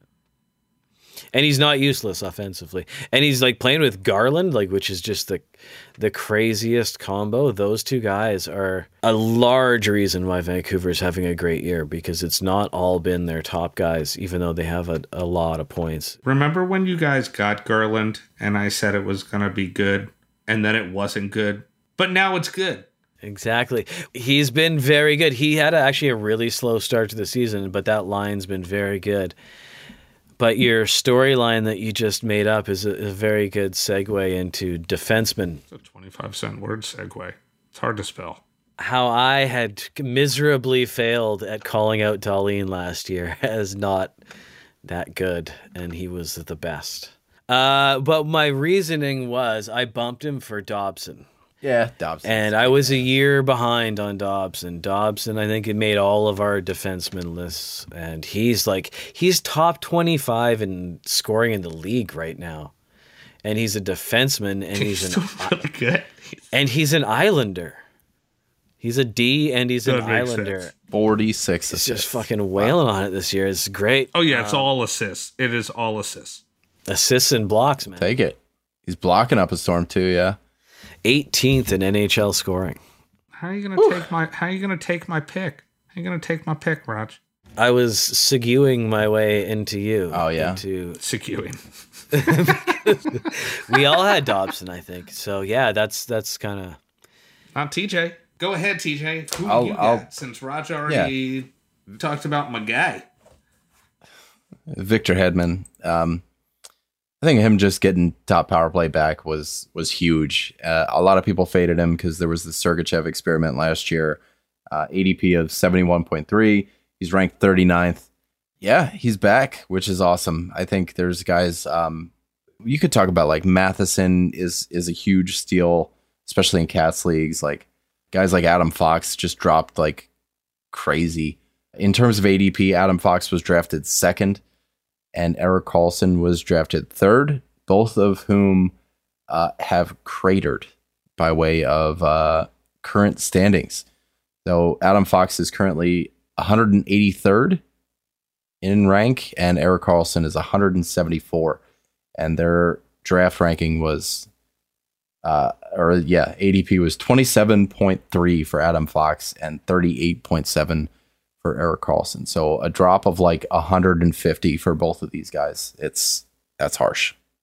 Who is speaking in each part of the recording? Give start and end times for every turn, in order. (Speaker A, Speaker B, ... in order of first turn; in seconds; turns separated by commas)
Speaker A: 1.3-16.2, Speaker B: 16.2-22.9, Speaker A: 23.2-29.4, Speaker A: 30.4-35.6, Speaker B: 35.7-38.4, Speaker A: 38.8-44.1, Speaker A: 44.8-51.3, Speaker C: 51.6-53.1, Speaker A: 52.2-62.7, Speaker A: 63.4-65.6, Speaker B: 64.7-66.4, Speaker A: 66.5-67.8, Speaker A: 68.8-70.7, Speaker B: 69.8-70.7, Speaker C: 70.9-72.7, Speaker A: 71.7-74.7, Speaker B: 74.1-76.4, Speaker A: 76.9-78.1, Speaker C: 78.0-80.4, Speaker A: 81.0-82.8, Speaker B: 83.4-87.2, Speaker A: 87.6-91.0, Speaker C: 90.1-90.6, Speaker B: 91.0-91.6, Speaker A: 92.1-96.8, Speaker B: 92.1-93.0, Speaker B: 97.5-103.0, Speaker C: 99.4-100.0, Speaker C: 100.9-101.1, Speaker C: 104.7-106.2, Speaker C: 107.2-114.2, Speaker C: 114.7-118.1, Speaker C: 118.6-122.1, Speaker C: 122.6-130.1, Speaker C: 130.7-134.4, Speaker C: 135.1-138.7, Speaker C: 139.3-143.8, Speaker C: 144.4-147.6, Speaker C: 148.6-151.6, Speaker C: 152.2-154.3, Speaker C: 155.2-160.9, Speaker C: 161.4-167.1